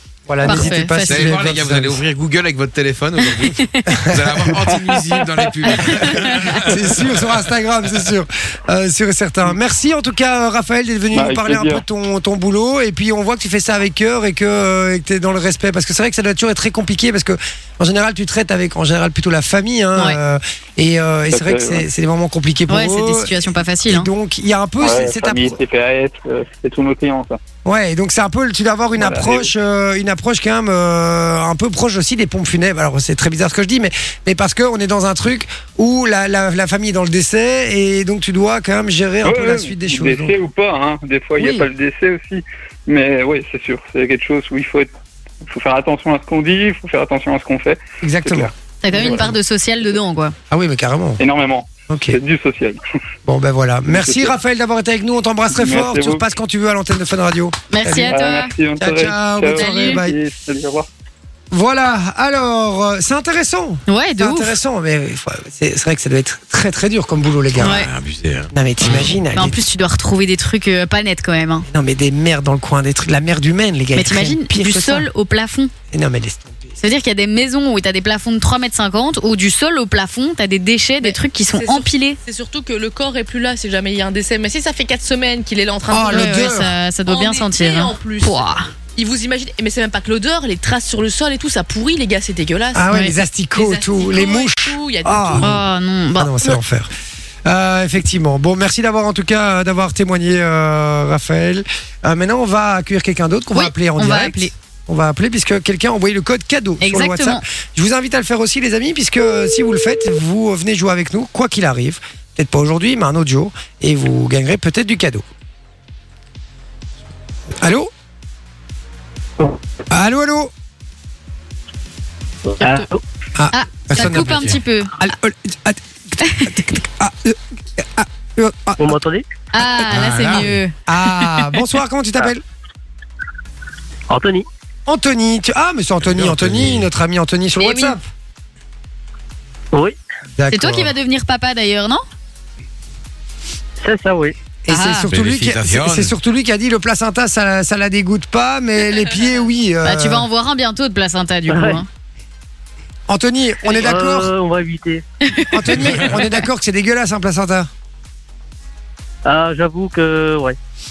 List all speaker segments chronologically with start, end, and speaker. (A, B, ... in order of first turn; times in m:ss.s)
0:00.3-0:02.0 A
0:00.4-0:01.4 B
0:01.1-0:07.2 C
0:03.2-0:04.0 B
0:03.9-0:04.5 A
0:04.7-0:05.7 D
0:05.8-0:06.6 B
0:06.6-0:25.6 A
0:11.1-0:11.8 D
0:21.3-0:21.8 D
0:22.7-0:24.1 B
0:24.8-0:27.4 D
0:27.6-0:40.3 A
0:29.0-0:29.5 D
0:39.2-0:44.9 D
0:41.4-0:41.7 A
0:45.4-0:49.3 D
0:48.0-0:49.3 A
0:48.8-0:50.3 B
0:50.5-0:51.2 A
0:51.2-0:52.8 D
0:51.9-0:52.2 A
0:53.2-0:58.2 A
0:53.9-0:54.3 D
0:55.5-0:56.2 D
0:57.7-0:58.5 B
0:58.1-1:00.9 D
0:58.8-1:00.2 A
0:59.5-1:00.0 B
1:01.5-1:07.8 A
1:03.9-1:04.6 B
1:07.6-1:09.1 C
1:07.6-1:07.9 B
1:08.5-1:09.6 A
1:09.3-1:11.7 B
1:11.7-1:15.1 A
1:14.0-1:15.7 B
1:15.9-1:16.7 A
1:16.8-1:22.2 B
1:21.0-1:28.4 E
1:25.9-1:26.7 A
1:26.1-1:28.7 B
1:29.0-1:32.9 E
1:32.7-1:35.6 A
1:32.9-1:33.2 B
1:33.5-1:35.5 E
1:35.4-1:36.6 B
1:36.1-1:36.9 A
1:37.4-1:55.3 A
1:43.5-1:44.5 B
1:46.8-1:47.4 B
1:57.6-1:57.9 A
1:59.9-2:00.5 A
2:02.5-2:03.0 F
2:03.3-2:09.0 A
2:03.5-2:04.9 B
2:04.1-2:04.6 C
2:06.2-2:06.6 B
2:08.8-2:09.2 F
2:09.5-2:11.6 B
2:09.9-2:10.6 C
2:10.8-2:12.4 A
2:14.1-2:14.4 F
2:14.9-2:18.0 A
2:16.0-2:16.9 C
2:17.6-2:18.0 B
2:20.4-2:20.9 A
2:20.5-2:22.0 B
2:23.8-2:24.3 F
2:24.6-2:30.2 A
2:24.7-2:25.1 B
2:25.1-2:26.1 C
2:29.8-2:31.9 B
2:31.5-2:31.8 F
2:33.1-2:34.3 A
2:33.6-2:35.0 F
2:35.2-2:35.6 B
2:35.5-2:37.7 A
2:39.2-2:40.6 F